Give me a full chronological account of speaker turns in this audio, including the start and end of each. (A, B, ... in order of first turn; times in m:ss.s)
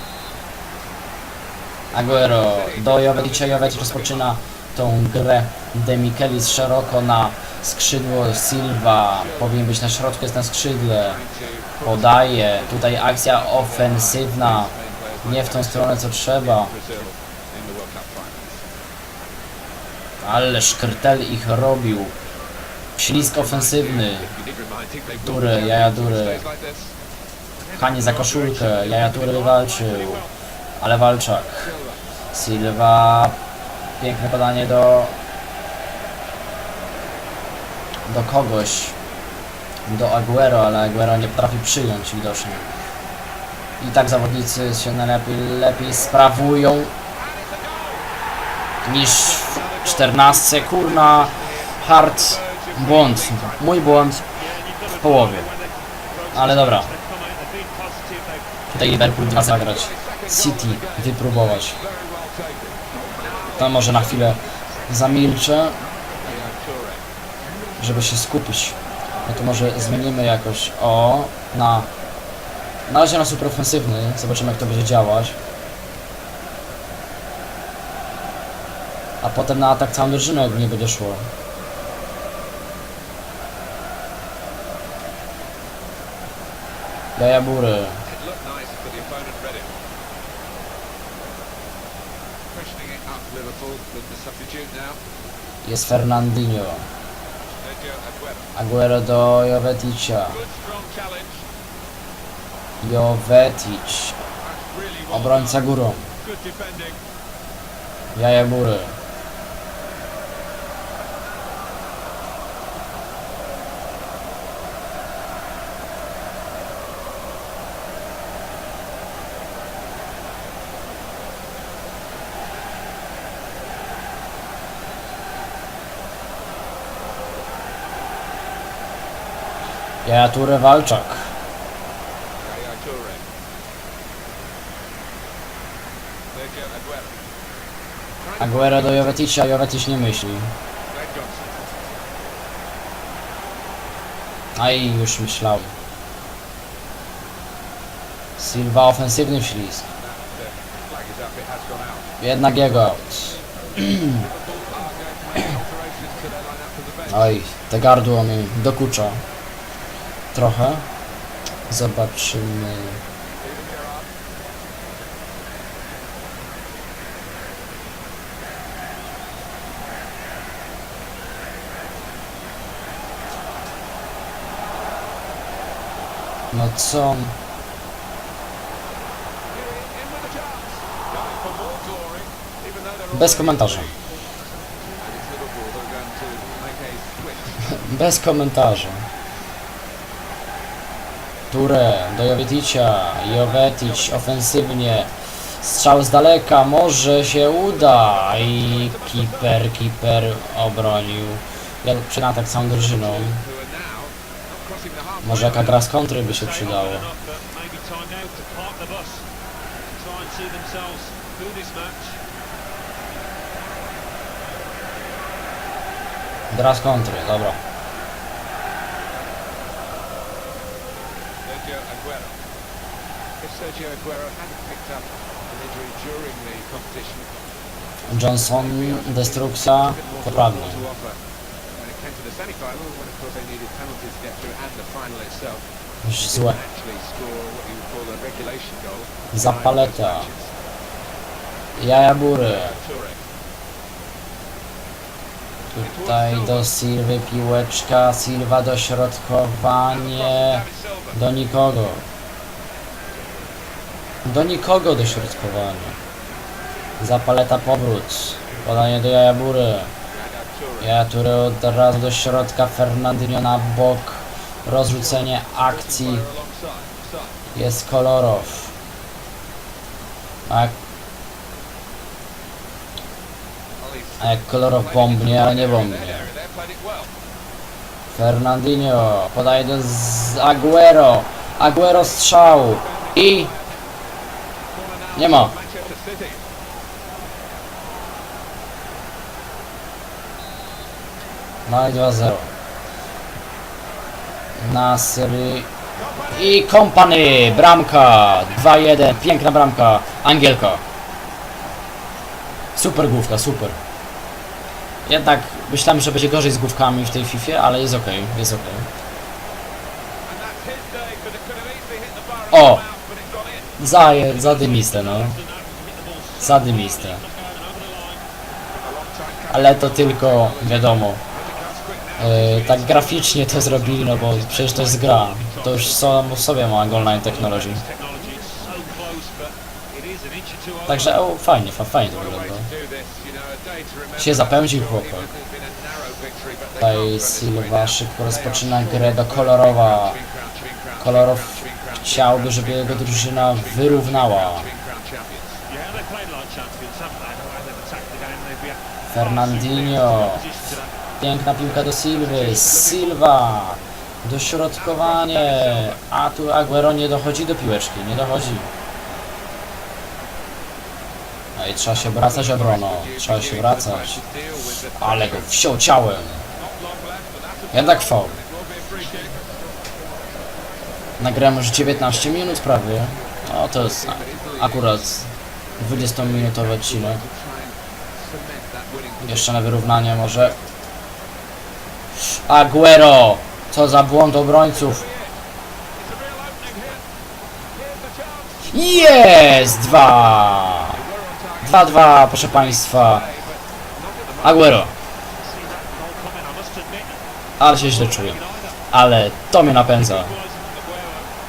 0:01.9-0:11.2 A
0:01.9-0:04.3 B
0:09.1-0:09.6 B
0:10.9-0:18.6 B
0:11.8-0:14.7 A
0:15.2-0:16.7 A
0:20.2-0:22.1 A
0:23.0-0:24.3 A
0:23.1-0:26.9 B
0:25.2-0:26.5 A
0:27.7-0:30.2 A
0:28.0-0:30.3 C
0:30.8-0:31.7 A
0:31.6-0:32.0 B
0:32.3-0:33.4 A
0:34.0-0:35.2 A
0:38.1-0:38.9 A
0:39.9-0:42.7 A
0:43.8-0:46.9 A
0:47.2-0:48.0 B
0:48.8-0:54.2 A
0:48.9-0:54.1 B
0:54.5-0:58.4 C
0:54.9-0:55.5 A
0:56.3-0:56.9 A
0:58.7-1:01.8 A
0:59.6-1:04.2 B
1:03.5-1:05.8 A
1:06.2-1:07.0 B
1:07.8-1:11.9 A
1:09.2-1:10.1 B
1:12.9-1:15.3 A
1:19.2-1:21.3 A
1:27.2-1:28.0 A
1:28.0-1:29.7 B
1:32.5-1:35.0 B
1:35.6-1:36.8 A
1:37.6-1:38.5 B
1:38.6-1:40.4 A
1:40.3-1:41.4 B
1:42.8-1:44.2 A
1:44.4-1:45.6 B
1:45.1-1:46.1 A
1:46.2-1:47.0 B
1:48.1-1:49.0 A
2:10.0-2:11.3 A
2:12.4-2:13.2 B
2:16.3-2:17.2 B
2:18.2-2:19.2 B
2:18.4-2:20.5 A
2:20.9-2:21.6 B
2:24.6-2:25.7 A
2:28.4-2:29.8 A
2:30.0-2:32.1 B
2:32.2-2:34.2 A
2:34.1-2:37.4 B
2:37.1-2:39.2 A
2:40.3-2:40.8 A
2:41.7-2:43.0 A
2:43.4-2:44.1 B
2:56.5-2:57.3 A
2:59.5-3:03.9 B
3:03.1-3:03.9 A
3:05.0-3:07.6 B
3:07.6-3:09.0 A
3:11.5-3:15.1 A
3:13.3-3:14.5 B
3:15.6-3:23.4 A
3:17.8-3:19.6 B
3:22.6-3:25.8 B
3:25.2-3:27.1 A
3:26.2-3:29.2 C
3:30.0-3:32.2 C
3:36.5-3:37.6 A
3:41.4-3:42.4 B
3:43.4-3:47.3 B
3:48.1-3:50.8 A
3:48.4-3:51.2 B
3:51.8-3:55.6 B
3:56.0-3:56.6 A
3:56.2-4:00.5 B
3:59.3-4:00.3 A
4:01.8-4:02.7 A
4:02.4-4:03.2 B
4:05.7-4:12.0 A
4:05.8-4:06.7 B
4:09.9-4:11.2 B
4:14.2-4:16.0 A
4:17.0-4:19.9 A
4:20.1-4:20.9 B
4:20.8-4:26.3 A
4:24.9-4:27.3 B
4:27.5-4:28.7 A
4:30.5-4:30.7 A
4:33.8-4:37.1 B
4:34.2-4:36.3 A
4:38.1-4:43.5 A
4:42.2-4:43.7 B
4:44.7-4:46.4 B
4:45.1-4:45.5 A
4:51.6-4:52.5 A
4:54.6-4:55.7 A
4:56.0-4:56.5 B
4:56.3-5:00.8 A
5:02.8-5:03.8 A
5:05.0-5:08.9 A
5:10.3-5:13.9 B
5:12.5-5:12.8 A
5:13.8-5:15.4 A
5:14.2-5:18.2 C
5:16.4-5:17.2 A
5:18.7-5:26.2 B
5:19.5-5:21.2 A
5:22.2-5:27.8 A
5:27.2-5:31.1 C
5:30.9-5:32.7 A
5:32.1-5:45.6 B
5:34.2-5:35.3 A
5:36.8-5:40.2 A
5:41.0-5:44.7 A
5:45.7-5:50.9 C
5:49.1-5:50.4 A
5:51.2-5:58.7 A
5:52.4-5:53.2 B
5:54.8-5:56.0 B
6:01.6-6:04.2 A
6:01.8-6:05.5 B
6:05.0-6:06.4 A
6:06.6-6:09.5 B
6:07.7-6:08.4 A
6:11.2-6:17.2 A
6:12.0-6:12.7 B
6:13.7-6:15.0 B
6:15.8-6:19.6 B
6:19.2-6:20.6 A
6:22.3-6:25.0 A
6:24.7-6:25.4 B
6:26.0-6:27.0 B
6:27.7-6:34.8 B
6:28.7-6:31.0 A
6:31.6-6:33.2 A
6:34.4-6:34.9 A
6:35.4-6:37.2 C
6:37.6-6:38.4 A
6:37.9-6:38.7 C
6:38.9-6:40.4 A
6:40.0-6:41.3 C